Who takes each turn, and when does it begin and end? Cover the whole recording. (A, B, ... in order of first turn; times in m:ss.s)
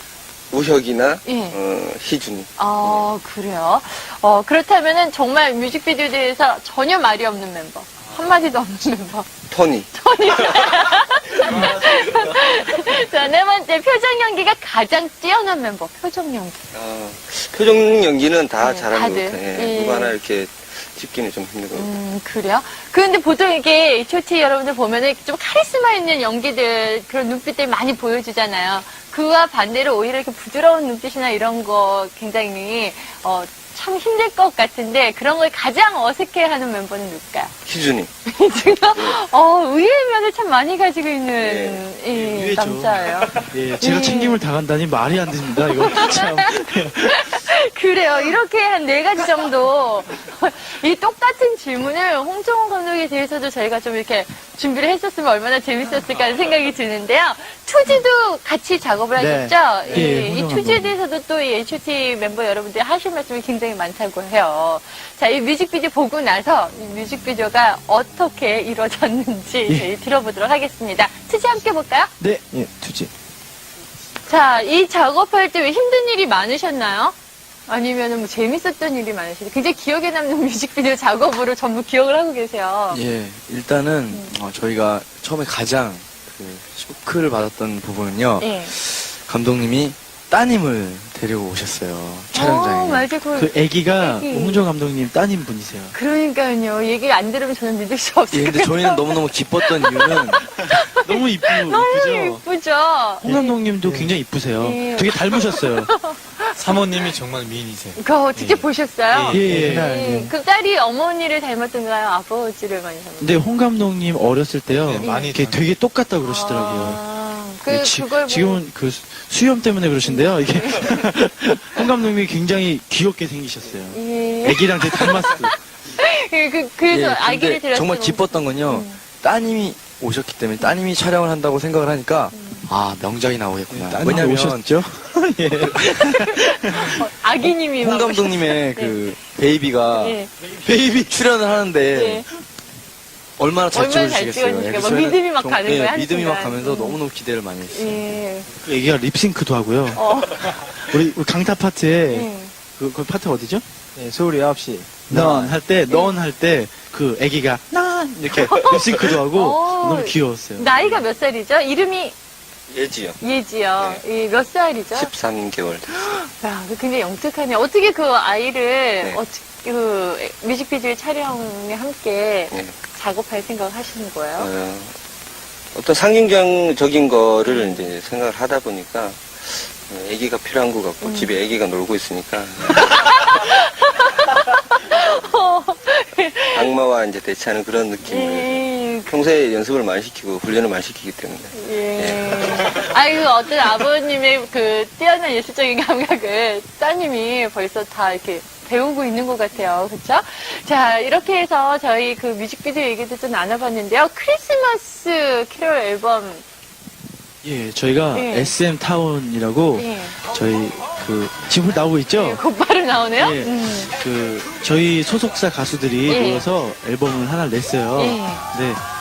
0:00.5-0:03.1 A
0:01.2-0:01.6 B
0:02.6-0:09.3 B
0:09.5-0:10.8 A
0:09.9-0:16.6 B
0:11.4-0:12.1 A
0:16.7-0:21.9 A
0:18.6-0:20.2 B
0:21.8-0:37.5 B
0:37.6-0:38.1 A
0:38.3-0:44.4 B
0:38.9-0:39.2 A
0:41.4-0:41.8 A
0:42.1-0:47.4 C
0:45.7-1:12.1 B
0:59.2-1:00.1 D
0:59.9-1:01.0 C
1:12.2-1:12.5 C
1:12.5-1:13.1 D
1:14.3-1:17.2 B
1:17.7-1:23.0 B
1:22.9-1:33.1 E
1:28.4-1:28.7 B
1:32.3-1:34.6 B
1:33.4-1:36.0 C
1:35.9-1:43.6 B
1:38.3-1:40.5 E
1:40.9-1:42.4 C
1:43.2-1:45.9 C
1:43.3-1:44.2 D
1:44.6-1:47.1 B
1:46.5-1:49.7 F
1:48.0-1:53.5 B
1:49.3-1:49.9 C
1:49.4-1:50.3 D
1:53.2-1:57.0 C
1:54.8-1:55.6 F
1:55.0-1:55.4 B
1:56.2-1:58.6 B
1:57.7-2:05.6 C
2:00.0-2:01.1 B
2:03.9-2:05.4 B
2:06.0-2:09.0 B
2:06.9-2:14.7 E
2:12.3-2:12.7 B
2:13.7-2:17.0 C
2:16.0-2:19.0 B
2:17.8-2:22.3 E
2:19.9-2:20.3 B
2:21.9-2:22.3 B
2:23.4-2:28.2 E
2:23.7-2:27.0 B
2:27.7-2:28.5 B
2:28.6-2:33.6 C
2:30.0-2:30.7 B
2:32.1-2:32.5 B
2:34.0-2:35.6 D
2:35.1-2:41.0 C
2:38.4-2:42.2 B
2:42.7-2:43.2 A
2:43.2-2:45.1 B
2:43.8-2:44.0 A
2:44.9-2:46.2 A
2:45.9-2:54.5 B
2:54.4-2:55.0 A
2:55.7-3:03.4 A
2:57.4-2:57.9 B
3:01.0-3:01.4 B
3:02.7-3:06.7 B
3:04.9-3:05.4 A
3:06.5-3:13.0 A
3:08.1-3:09.1 B
3:11.5-3:26.4 B
3:27.4-3:32.4 C
3:28.1-3:28.6 B
3:29.8-3:30.2 B
3:32.1-3:33.9 B
3:33.2-3:38.8 C
3:36.1-3:36.5 B
3:38.0-3:38.4 B